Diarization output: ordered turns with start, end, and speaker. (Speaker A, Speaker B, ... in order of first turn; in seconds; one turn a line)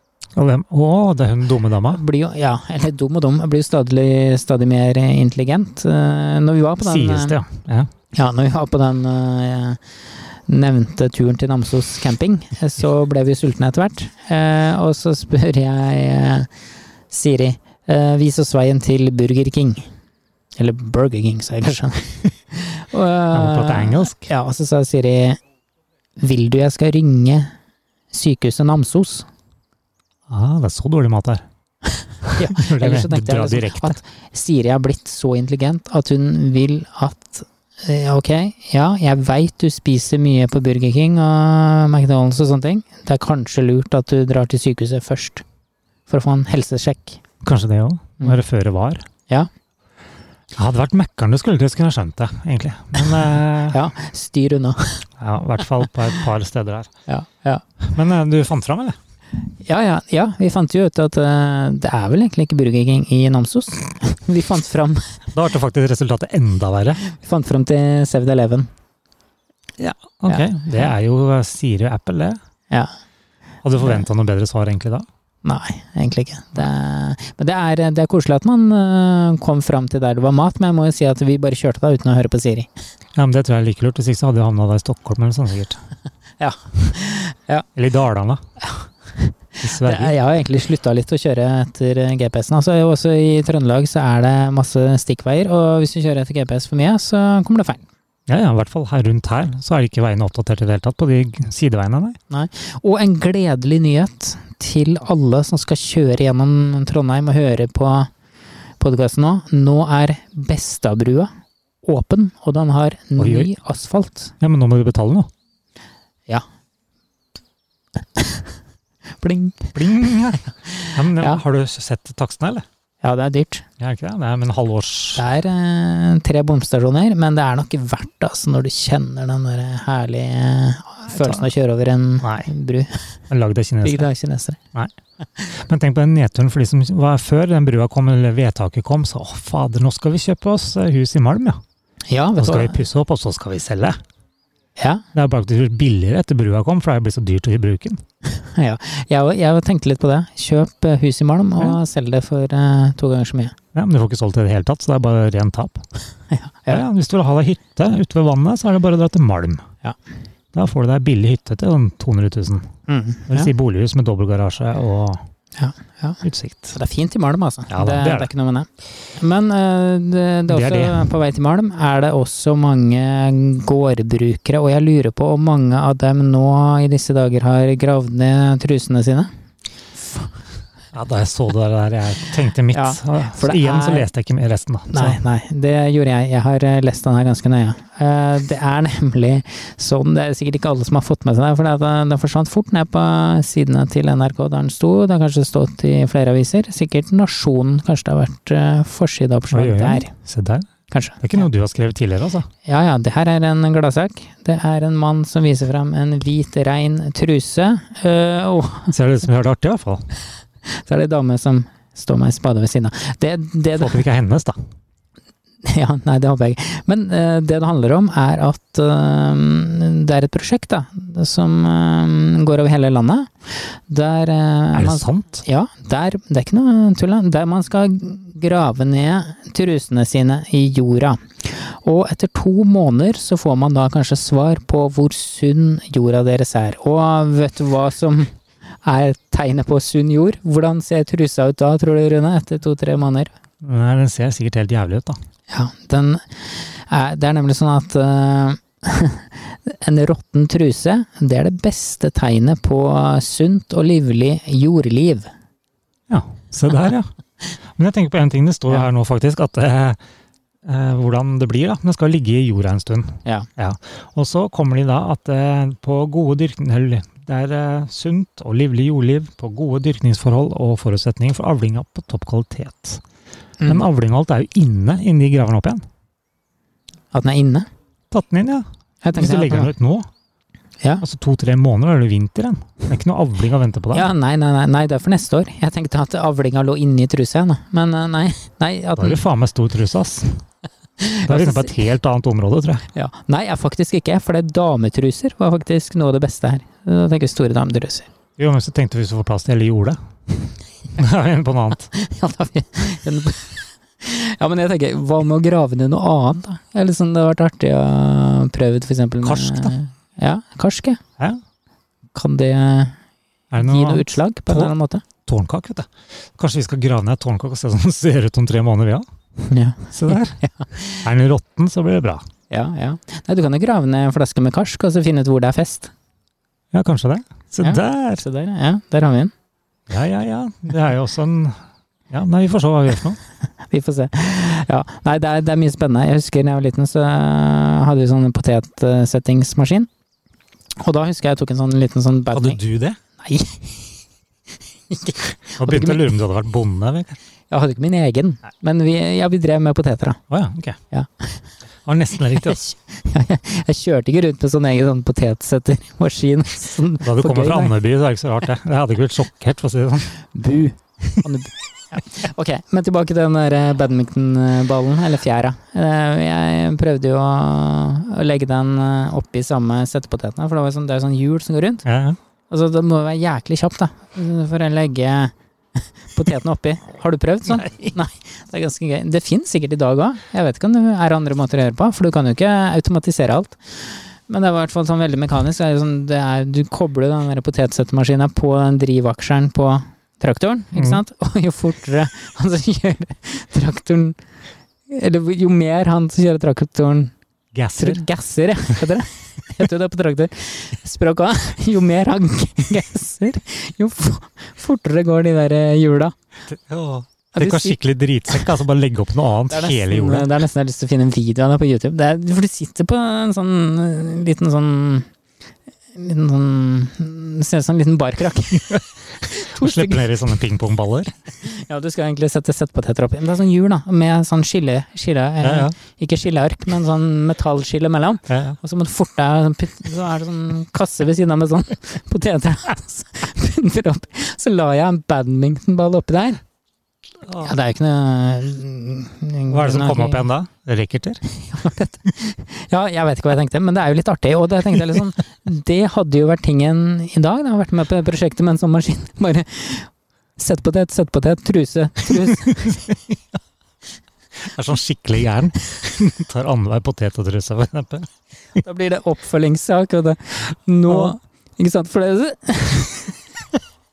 Speaker A: 0.3-2.0
Speaker B: 1.9-7.4
Speaker A: 6.8-7.9
Speaker B: 8.1-9.8
Speaker B: 10.5-16.5
Speaker B: 17.1-19.9
Speaker B: 20.6-25.4
Speaker A: 23.3-24.3
Speaker B: 26.2-27.5
Speaker B: 28.1-29.3
Speaker A: 30.3-31.4
Speaker A: 32.3-34.0
Speaker B: 32.3-45.4
Speaker B: 46.1-47.2
Speaker A: 47.4-49.1
Speaker A: 50.5-53.8
Speaker B: 53.7-55.1
Speaker A: 55.2-56.9
Speaker B: 57.1-57.6
Speaker A: 57.8-59.0
Speaker B: 59.6-65.2
Speaker A: 65.3-67.0
Speaker B: 67.0-68.7
Speaker A: 69.8-72.4
Speaker A: 73.6-75.1
Speaker B: 75.4-82.7
Speaker A: 83.1-85.8
Speaker B: 86.4-87.7
Speaker A: 87.8-88.4
Speaker B: 88.6-97.8
Speaker A: 89.6-90.1
Speaker A: 98.3-102.2
Speaker B: 102.3-108.1
Speaker B: 108.8-111.3
Speaker B: 111.8-114.3
Speaker A: 113.2-113.5
Speaker A: 114.4-115.3
Speaker B: 118.2-118.5
Speaker B: 119.2-121.4
Speaker A: 119.8-122.6
Speaker B: 123.0-123.6
Speaker A: 123.8-125.2
Speaker B: 125.2-133.1
Speaker A: 131.1-131.5
Speaker A: 132.2-132.5
Speaker A: 133.3-134.1
Speaker B: 133.8-134.6
Speaker A: 134.7-141.6
Speaker B: 142.1-142.8
Speaker A: 142.4-144.0
Speaker B: 144.8-145.0
Speaker A: 145.1-148.0
Speaker B: 148.4-153.6
Speaker A: 153.7-155.8
Speaker B: 156.3-156.8
Speaker A: 156.7-159.6
Speaker A: 160.5-162.7
Speaker B: 162.9-163.5
Speaker A: 163.3-165.2
Speaker B: 165.6-179.3
Speaker A: 166.2-166.8
Speaker A: 167.7-168.3
Speaker A: 170.5-171.1
Speaker A: 180.9-185.2
Speaker B: 182.7-184.1
Speaker B: 184.9-200.1
Speaker A: 199.5-200.7
Speaker B: 200.9-201.2
Speaker A: 201.2-202.5
Speaker B: 202.6-208.9
Speaker A: 208.9-210.1
Speaker B: 210.7-214.0
Speaker A: 213.8-214.6
Speaker B: 215.6-243.3
Speaker A: 224.7-225.4
Speaker A: 243.6-245.2
Speaker B: 245.5-255.3
Speaker A: 256.1-257.1
Speaker A: 257.7-260.0
Speaker A: 260.6-273.0
Speaker A: 273.6-275.8
Speaker B: 277.1-277.7
Speaker A: 278.1-280.1
Speaker B: 279.0-279.7
Speaker A: 281.0-284.1
Speaker B: 283.9-289.2
Speaker A: 289.0-290.4
Speaker B: 291.0-291.8
Speaker A: 291.3-292.9
Speaker B: 292.9-298.1
Speaker A: 298.4-300.0
Speaker A: 300.9-301.9
Speaker B: 301.9-311.0
Speaker A: 309.2-309.8
Speaker B: 312.1-312.9
Speaker A: 313.5-314.7
Speaker B: 313.6-315.0
Speaker A: 315.3-319.1
Speaker B: 319.4-321.1
Speaker A: 319.9-320.4
Speaker A: 321.0-322.2
Speaker B: 322.5-325.9
Speaker A: 326.7-328.2
Speaker B: 327.6-329.3
Speaker A: 329.9-333.2
Speaker B: 333.7-339.9
Speaker B: 340.8-342.6
Speaker A: 342.3-343.0
Speaker B: 343.2-343.9
Speaker B: 344.9-346.1
Speaker A: 345.6-347.2
Speaker B: 347.5-350.2
Speaker A: 350.3-350.8
Speaker B: 350.9-351.3
Speaker A: 351.9-352.6
Speaker B: 352.4-357.8
Speaker A: 357.0-360.2
Speaker B: 360.4-371.9
Speaker A: 371.9-372.2
Speaker B: 372.5-375.3
Speaker B: 376.1-394.2
Speaker A: 377.5-377.9
Speaker A: 390.8-391.0
Speaker B: 394.9-397.1
Speaker A: 397.5-398.0
Speaker B: 397.8-406.1
Speaker A: 406.5-410.3
Speaker B: 407.4-407.8
Speaker B: 409.5-415.1
Speaker B: 415.9-420.0
Speaker A: 419.4-421.1
Speaker B: 421.4-436.4
Speaker A: 425.4-425.7
Speaker A: 428.3-428.6
Speaker A: 437.2-437.6
Speaker B: 437.4-440.3
Speaker A: 439.5-441.2
Speaker B: 441.4-452.9
Speaker A: 454.4-458.6
Speaker B: 458.6-463.1
Speaker A: 460.9-461.1